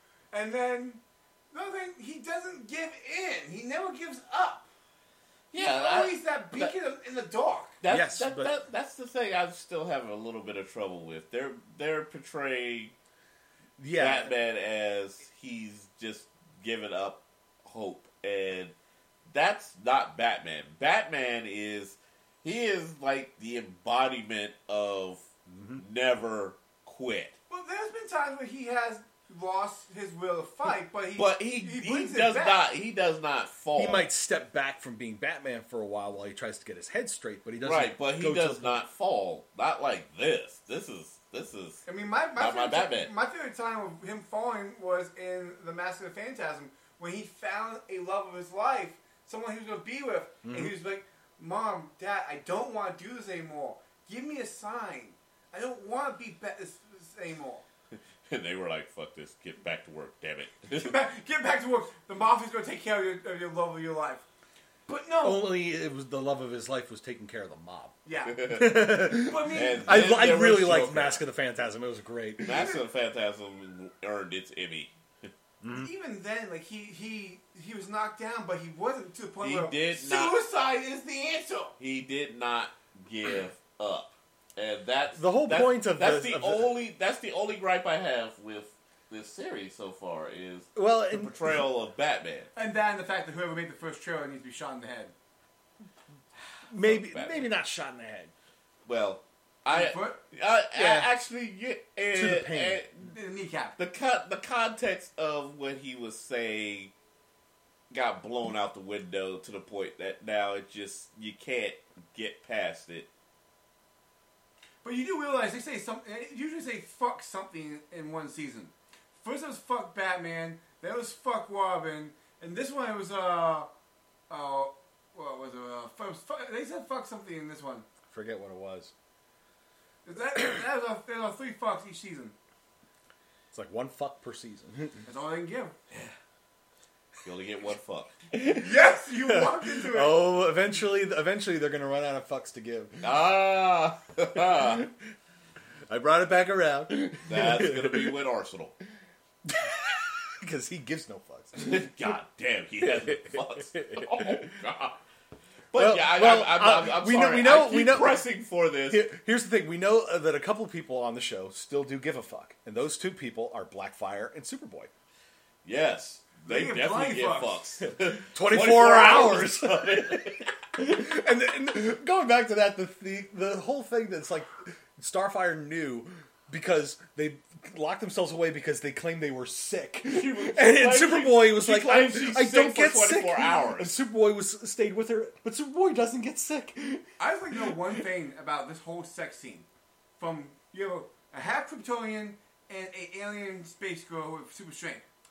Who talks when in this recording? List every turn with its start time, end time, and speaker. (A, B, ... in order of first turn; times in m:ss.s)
0:00.3-0:04.7 A
0:05.5-0:06.7 B
0:05.6-0:07.8 A
0:07.8-0:12.9 B
0:07.9-0:08.5 C
0:13.8-0:14.3 C
0:13.9-0:18.7 B
0:19.3-0:25.2 B
0:25.5-0:25.8 C
0:25.8-0:27.4 B
0:27.5-0:32.6 A
0:31.2-0:34.1 B
0:33.8-0:38.8 C
0:37.6-0:43.1 B
0:41.8-0:57.6 A
0:50.4-0:50.7 C
0:57.9-1:01.0 B
1:00.7-1:04.2 A
1:04.9-1:05.5 A
1:05.2-1:12.7 C
1:08.0-1:10.0 A
1:08.3-1:11.2 B
1:12.4-1:15.3 B
1:12.5-1:12.8 A
1:15.6-1:15.9 C
1:15.7-1:21.8 A
1:19.4-1:20.4 B
1:21.8-1:32.5 B
1:25.2-1:26.7 C
1:30.8-1:31.6 C
1:32.6-1:35.1 A
1:36.7-1:38.3 C
1:36.7-1:37.5 B
1:38.8-1:43.1 B
1:39.7-1:40.2 A
1:40.7-1:41.1 C
1:42.1-1:42.8 C
1:43.0-1:43.8 A
1:43.8-1:46.9 B
1:47.9-1:53.1 B
1:54.8-2:03.7 A
2:04.3-2:07.8 A
2:08.1-2:08.9 C
2:10.0-2:12.3 A
2:13.5-2:15.0 C
2:15.0-2:15.7 A
2:17.2-2:18.1 B
2:18.3-2:23.2 C
2:18.5-2:20.2 A
2:23.0-2:24.8 B
2:24.4-2:24.9 C
2:25.9-2:28.1 C
2:27.2-2:28.8 B
2:29.4-2:31.9 C
2:31.6-2:35.0 B
2:34.0-2:34.4 C
2:35.7-2:39.0 B
2:35.7-2:38.2 C
2:38.9-2:44.9 C
2:45.6-2:50.8 B
2:46.4-2:47.6 A
2:48.3-3:07.8 C
3:00.1-3:03.9 B
3:07.2-3:09.7 A
3:10.2-3:15.0 A